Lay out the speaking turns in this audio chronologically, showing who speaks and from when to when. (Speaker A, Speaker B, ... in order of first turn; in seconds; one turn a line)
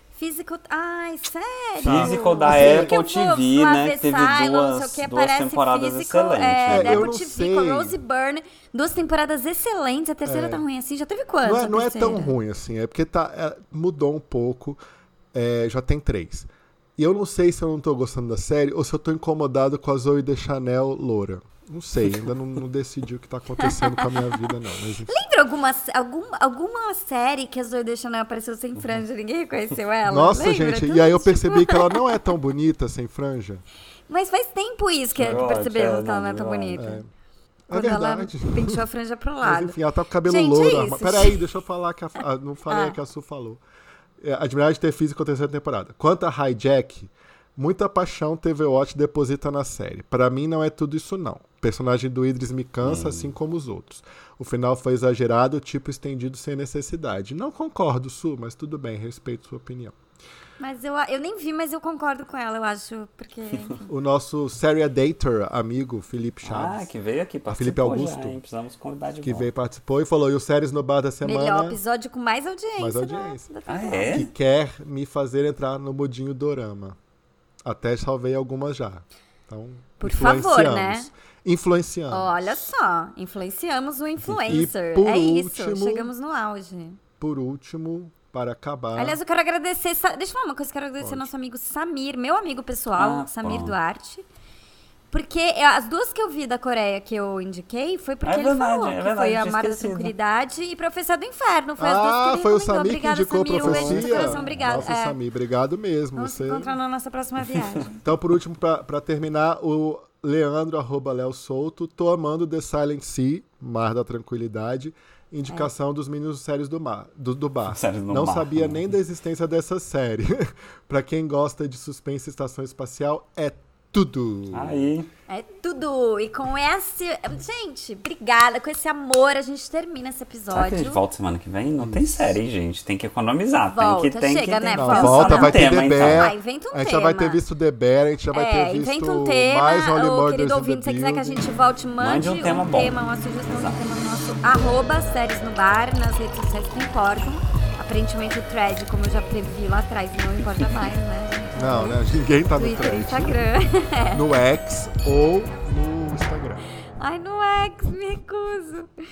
Speaker A: 0.1-12.3
Speaker B: 1.8-7.1
Speaker C: 1.8-3.0
Speaker C: 6.7-8.0
Speaker C: 10.2-10.6
Speaker C: 11.4-14.8
Speaker C: 15.3-25.1
Speaker A: 23.6-24.2
Speaker A: 25.1-32.3
Speaker C: 30.1-33.6
Speaker A: 34.1-37.0
Speaker B: 35.2-36.8
Speaker C: 35.2-35.4
Speaker C: 36.8-37.1
Speaker C: 37.7-38.8
Speaker A: 37.7-41.4
Speaker C: 39.4-43.6
Speaker A: 42.7-43.0
Speaker C: 44.2-60.0
Speaker B: 52.8-53.3
Speaker A: 60.6-63.9
Speaker C: 63.9-66.9
Speaker B: 66.5-69.5
Speaker C: 67.5-68.4
Speaker C: 69.2-71.8
Speaker A: 71.2-74.3
Speaker C: 72.8-73.5
Speaker B: 73.7-74.3
Speaker C: 74.1-77.0
Speaker C: 77.6-82.4
Speaker A: 80.0-81.1
Speaker A: 82.1-87.0
Speaker C: 84.5-86.1
Speaker C: 87.2-89.2
Speaker A: 89.0-94.2
Speaker C: 91.0-91.3
Speaker B: 93.0-93.8
Speaker A: 95.1-105.2
Speaker B: 98.2-100.1
Speaker C: 101.8-106.7
Speaker B: 103.6-104.7
Speaker A: 106.2-108.0
Speaker C: 108.0-124.9
Speaker B: 117.7-118.9
Speaker B: 124.5-125.1
Speaker A: 125.3-131.0
Speaker B: 130.5-136.3
Speaker C: 131.8-132.4
Speaker A: 133.7-137.4
Speaker C: 134.8-141.5
Speaker A: 138.3-152.0
Speaker B: 142.0-143.9
Speaker C: 151.6-153.4
Speaker A: 152.6-154.2
Speaker C: 154.1-156.7
Speaker A: 157.0-158.9